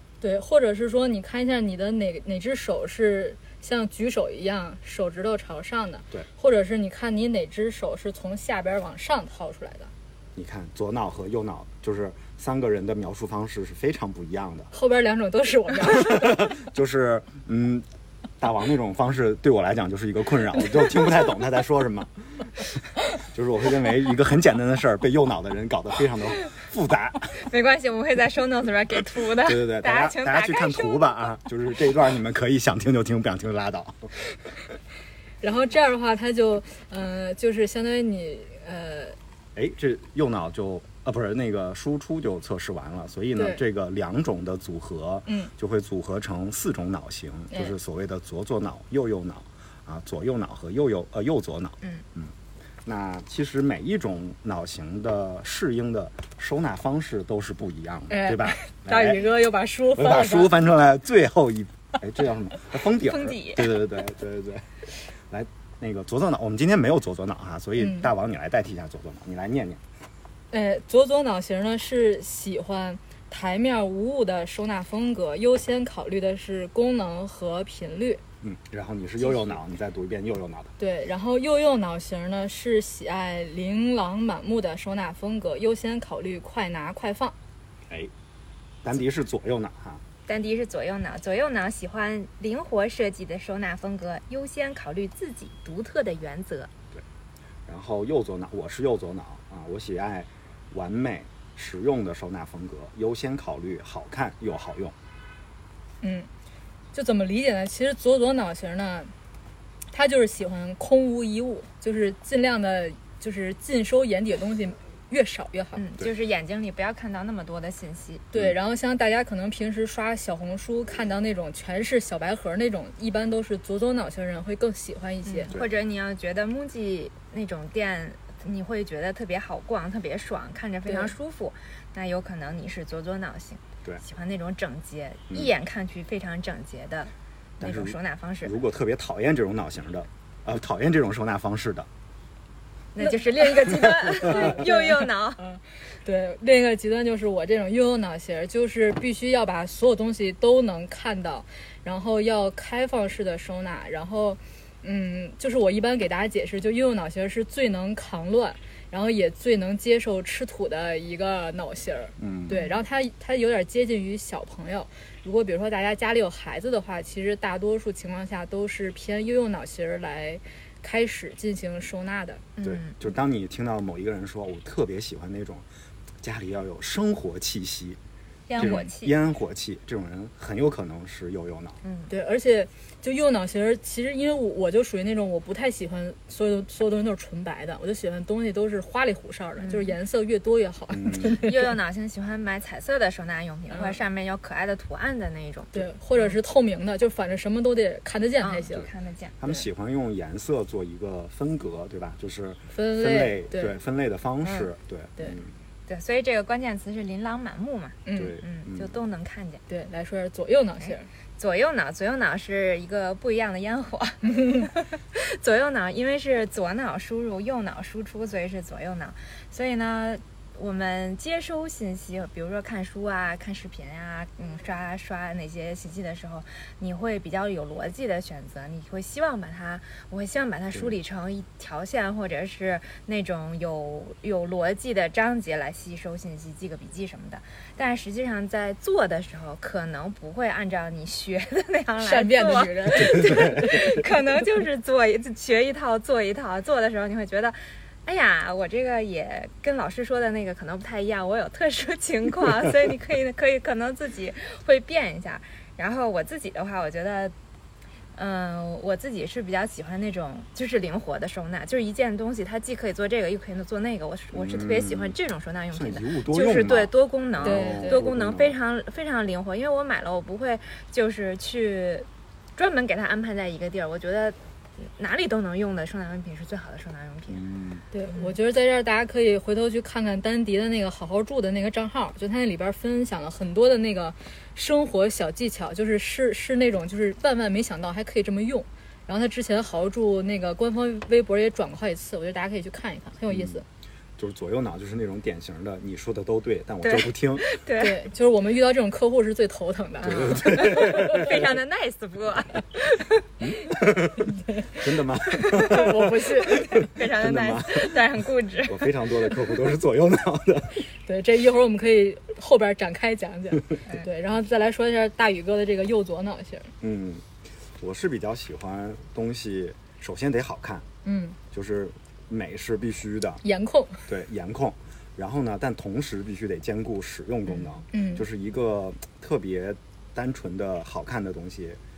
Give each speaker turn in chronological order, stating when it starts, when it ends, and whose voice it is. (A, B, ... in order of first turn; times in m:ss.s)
0:00.2-0:09.9 A
0:10.4-0:14.7 B
0:14.7-0:16.5 A
0:15.8-0:17.8 B
0:18.4-0:27.4 B
0:27.3-0:31.3 C
0:29.4-0:34.1 B
0:35.4-0:39.2 A
0:39.5-0:52.3 B
0:43.3-0:43.6 A
0:45.3-0:45.5 A
0:52.8-0:59.2 B
0:58.1-1:00.5 A
0:59.9-1:04.7 B
1:03.0-1:03.8 C
1:05.3-1:09.8 B
1:07.8-1:08.1 A
1:10.5-1:18.2 A
1:18.4-1:20.7 B
1:20.8-1:27.3 A
1:28.8-1:30.0 B
1:30.3-1:36.7 C
1:37.6-1:45.0 B
1:46.0-1:46.3 A
1:46.9-1:49.1 A
1:49.9-1:55.8 A
1:55.8-1:58.3 C
1:58.3-2:05.5 A
2:05.2-2:18.5 C
2:10.9-2:11.1 A
2:17.6-2:21.9 B
2:22.9-2:25.4 C
2:23.1-2:52.4 A
2:42.2-2:42.6 B
2:52.6-2:53.0 C
2:52.6-2:55.6 B
2:56.2-2:58.0 B
2:58.5-2:59.1 C
2:58.6-3:01.8 B
3:01.8-3:02.1 C
3:02.1-3:11.6 A
3:09.6-3:09.9 C
3:10.9-3:11.4 B
3:11.3-3:16.4 C
3:15.7-3:18.9 A
3:18.4-3:19.4 C
3:19.4-3:25.5 B
3:22.7-3:23.7 A
3:25.9-3:29.6 C
3:28.0-3:28.3 A
3:28.1-3:29.0 B
3:29.7-3:31.1 A
3:30.8-4:17.3 C
4:02.0-4:03.6 A
4:03.1-4:04.0 B
4:18.1-4:37.4 C
4:24.3-4:25.2 B
4:25.7-4:28.6 B
4:27.4-4:28.0 A
4:37.3-4:37.8 B
4:37.9-4:53.6 A
4:53.3-4:53.6 B
4:54.2-4:57.5 B
4:56.8-4:58.0 C
4:57.8-5:01.3 A
5:00.0-5:01.5 B
5:00.0-5:03.4 C
5:03.4-5:10.9 B
5:05.5-5:05.9 C
5:05.5-5:06.7 A
5:06.5-5:08.9 C
5:11.0-5:16.7 A
5:16.8-5:17.2 B
5:17.8-5:20.8 B
5:21.0-5:21.4 A
5:21.5-5:23.4 B
5:23.4-5:24.0 A
5:24.1-5:31.8 B
5:27.9-5:28.2 A